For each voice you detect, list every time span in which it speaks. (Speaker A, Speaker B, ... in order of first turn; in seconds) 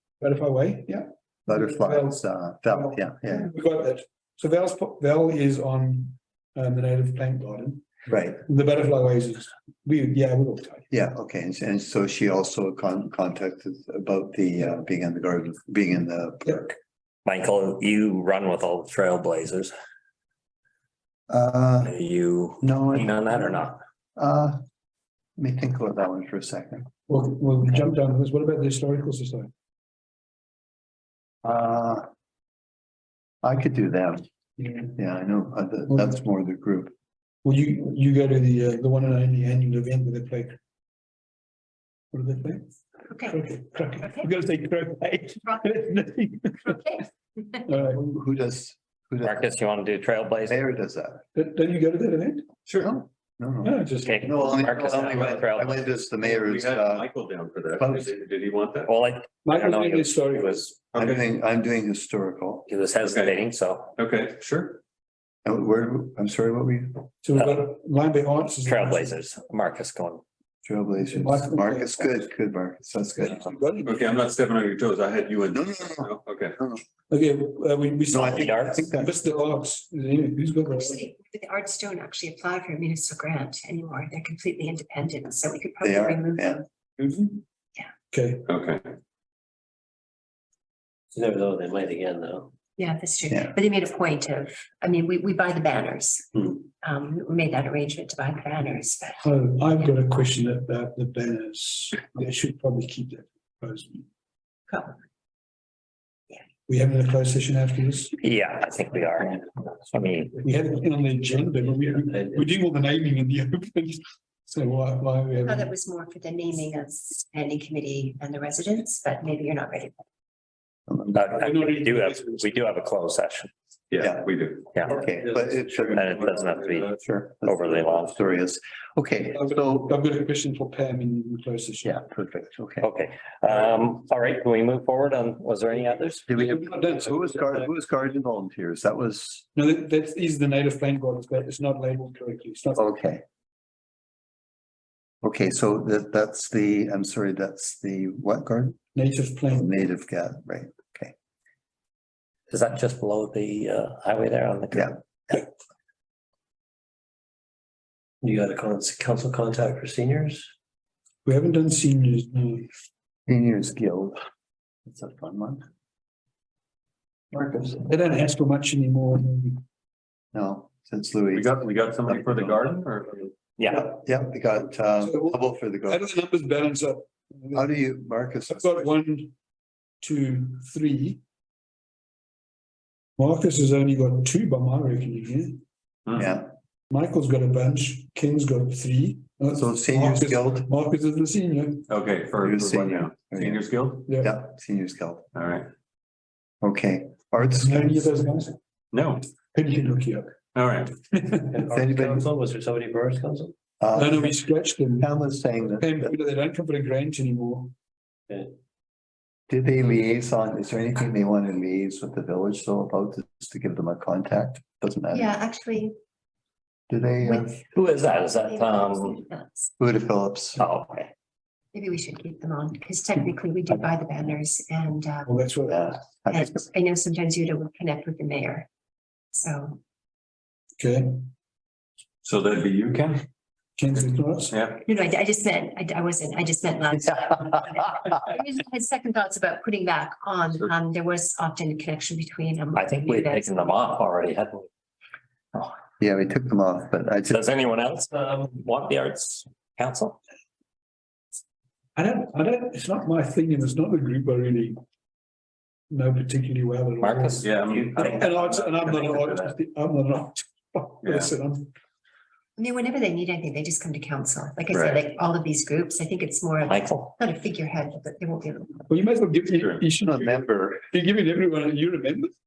Speaker A: 0.2-7.8, 8.4-10.9, 27.1-29.5, 34.6-34.9, 35.9-36.1, 37.4-40.6, 42.1-42.6, 43.3-46.8, 47.7-48.1, 51.4-52.5, 53.6-54.6, 59.5-60.8, 67.2-69.2, 71.1-72.3, 73.1-74.2, 77.1-81.0, 87.0-87.4, 88.1-88.5, 99.2-104.0, 106.7-108.2, 110.4-115.7, 121.3-122.5, 129.3-132.0, 136.3-137.6, 139.6-142.8, 148.9-149.8, 161.2-162.7, 167.8-169.6, 175.0-177.8, 178.5-179.3, 180.0-181.2, 183.2-185.6, 186.9-191.9, 194.1-194.3, 197.6-198.6, 199.5-200.4, 201.1-201.6, 203.9-205.1, 205.7-207.7, 225.3-226.0, 230.8-231.2, 233.8-234.6, 252.0-254.8, 255.9-261.7, 268.9-272.3
Speaker B: 1.5-3.5, 8.1-8.4, 10.9-16.8, 21.3-21.9, 22.6-24.6, 25.4-26.9, 31.4-32.0, 33.4-34.2, 35.0-36.9, 47.9-49.5, 50.5-51.2, 52.8-57.1, 57.7-58.1, 61.0-62.7, 65.5-67.1, 70.6-73.4, 75.5-76.8, 78.1-79.1, 85.8-86.6, 124.0-126.4, 127.0-130.0, 131.8-132.9, 136.3-139.5, 142.8-143.2, 145.2-148.8, 149.5-151.1, 154.7-155.4, 163.3-164.2, 164.9-165.6, 167.3-167.8, 170.3-172.7, 173.7-176.0, 177.5-178.9, 186.2-186.5, 189.6-190.7, 192.4-195.3, 196.6-198.1, 201.7-202.3, 203.8-204.4, 205.0-206.1, 209.5-215.3, 216.9-217.6, 219.8-220.6, 225.7-226.7, 246.0-247.4, 270.0-270.8
Speaker C: 17.2-19.7, 21.8-23.8, 49.2-50.6, 54.0-55.9, 58.9-60.8, 62.7-64.0, 67.4-67.6, 68.6-70.2, 78.3-78.9, 108.2-110.4, 121.1-123.5, 124.7-125.0, 125.9-128.2, 132.8-136.3, 152.5-154.9, 173.6-173.9, 217.7-219.2, 220.6-221.1, 242.7-244.7, 247.3-250.2, 257.0-258.3, 266.7-267.1
Speaker D: 43.1-43.4, 44.0-44.3, 46.6-47.6, 80.7-86.7, 92.8-99.2, 115.4-120.0, 215.1-215.9, 217.2-217.7, 218.4-219.7, 221.7-225.3, 226.3-228.7, 229.3-229.8, 234.8-243.8, 262.6-268.8
Speaker E: 52.7-52.9, 56.2-58.9, 60.9-61.2, 63.0-63.4, 64.0-64.8, 73.8-76.6, 88.5-88.9, 123.9-127.0, 171.3-173.3, 186.1-186.3, 191.9-194.1, 195.3-195.7, 198.9-199.3, 200.5-200.9, 232.2-233.3, 234.5-234.8, 257.4-259.6, 261.0-261.3, 264.7-265.0, 269.6-269.9
Speaker F: 91.1-92.5, 111.7-112.4, 158.2-160.5, 201.4-203.5, 208.3-208.6